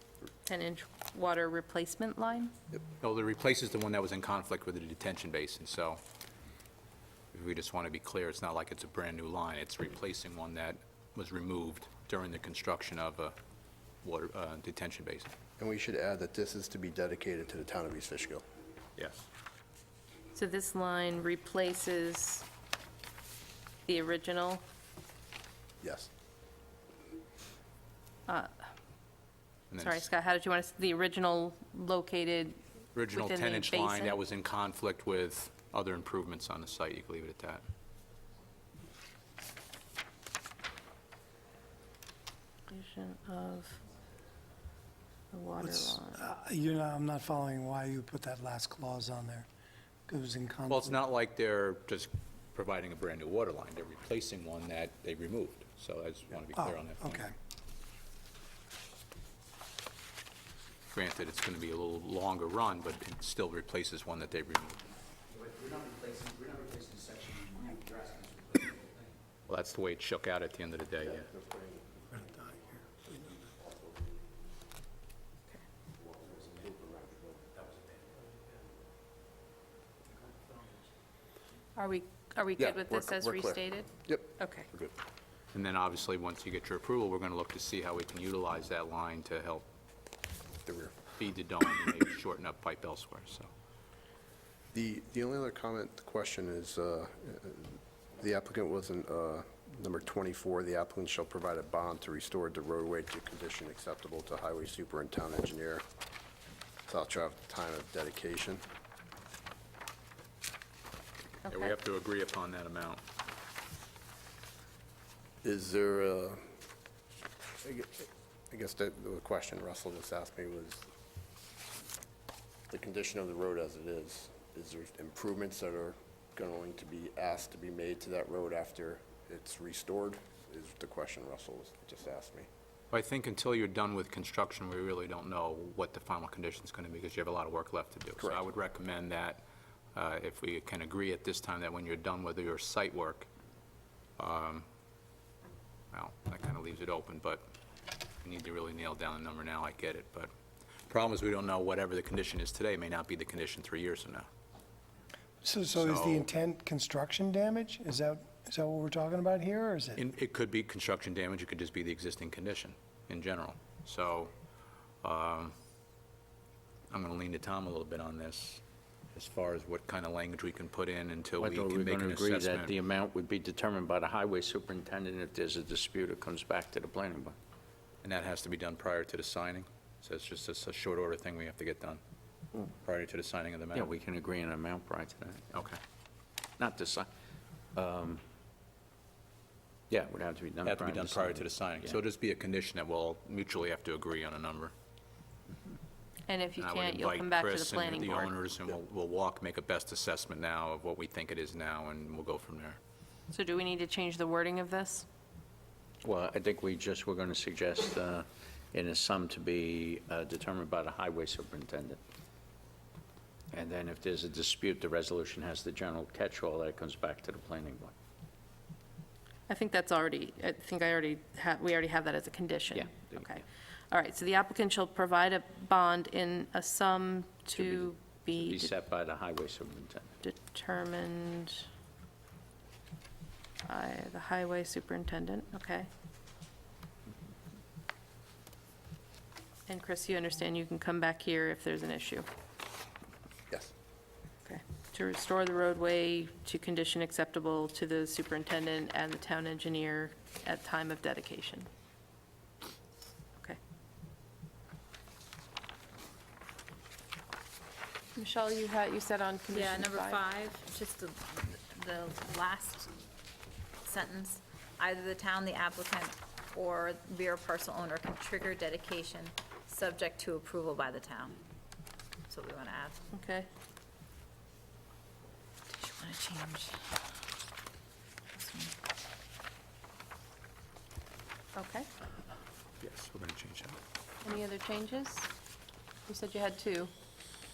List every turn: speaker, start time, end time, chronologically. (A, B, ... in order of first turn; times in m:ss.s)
0:00.4-0:02.5 A
0:03.0-0:06.0 B
0:07.3-0:13.3 B
0:14.0-0:15.3 B
0:15.6-0:18.4 C
0:19.0-0:19.3 B
0:20.3-0:22.4 A
0:23.8-0:24.6 A
0:25.8-0:26.1 C
0:28.3-0:28.7 A
0:29.7-0:30.0 B
0:29.8-0:32.6 A
0:33.0-0:37.6 B
0:33.1-0:34.2 A
0:42.7-0:43.8 A
0:45.3-0:46.3 A
0:45.6-0:49.5 D
0:50.1-0:50.9 D
0:50.7-0:57.3 B
0:56.5-0:57.3 D
1:00.9-1:04.8 B
1:09.5-1:11.3 B
1:11.0-1:14.2 C
1:16.1-1:17.6 C
1:21.8-1:24.7 A
1:22.6-1:24.9 C
1:25.5-1:29.7 B
1:30.6-1:31.0 C
1:31.2-1:33.5 B
1:34.7-1:45.8 C
1:46.9-1:48.6 C
1:51.5-1:51.7 A
1:51.5-1:53.0 B
1:55.4-1:56.4 C
1:57.6-2:00.9 C
2:02.7-2:12.5 C
2:12.9-2:19.4 B
2:19.9-2:23.3 B
2:24.2-2:24.7 B
2:25.9-2:27.4 B
2:28.2-2:30.3 B
2:30.9-2:34.3 B
2:35.4-2:40.0 D
2:35.7-2:36.3 B
2:40.0-2:44.3 B
2:45.0-2:45.5 B
2:46.9-2:48.6 B
2:49.1-2:52.8 B
2:51.4-2:57.4 E
2:58.0-3:02.0 B
3:02.8-3:04.0 B
3:03.7-3:05.4 E
3:05.5-3:05.8 B
3:06.6-3:07.1 E
3:07.7-3:08.2 E
3:09.9-3:12.0 E
3:10.6-3:14.7 B
3:16.3-3:18.3 A
3:16.6-3:22.8 B
3:23.3-3:25.0 A
3:26.0-3:32.0 E
3:33.5-3:37.9 E
3:39.5-3:48.7 A
3:42.7-3:43.4 E
3:47.6-3:50.2 E
3:50.2-3:51.7 A
3:53.6-3:55.9 A
3:59.7-4:02.2 A
4:04.4-4:11.7 A
4:18.2-4:20.2 A
4:19.5-4:22.9 F
4:23.8-4:31.4 F
4:32.3-4:33.0 F
4:33.1-4:33.5 A
4:35.7-4:37.0 F
4:38.3-4:38.7 F
4:41.6-4:41.9 A
4:42.8-4:43.8 B
4:44.2-4:45.3 A
4:46.1-4:46.9 A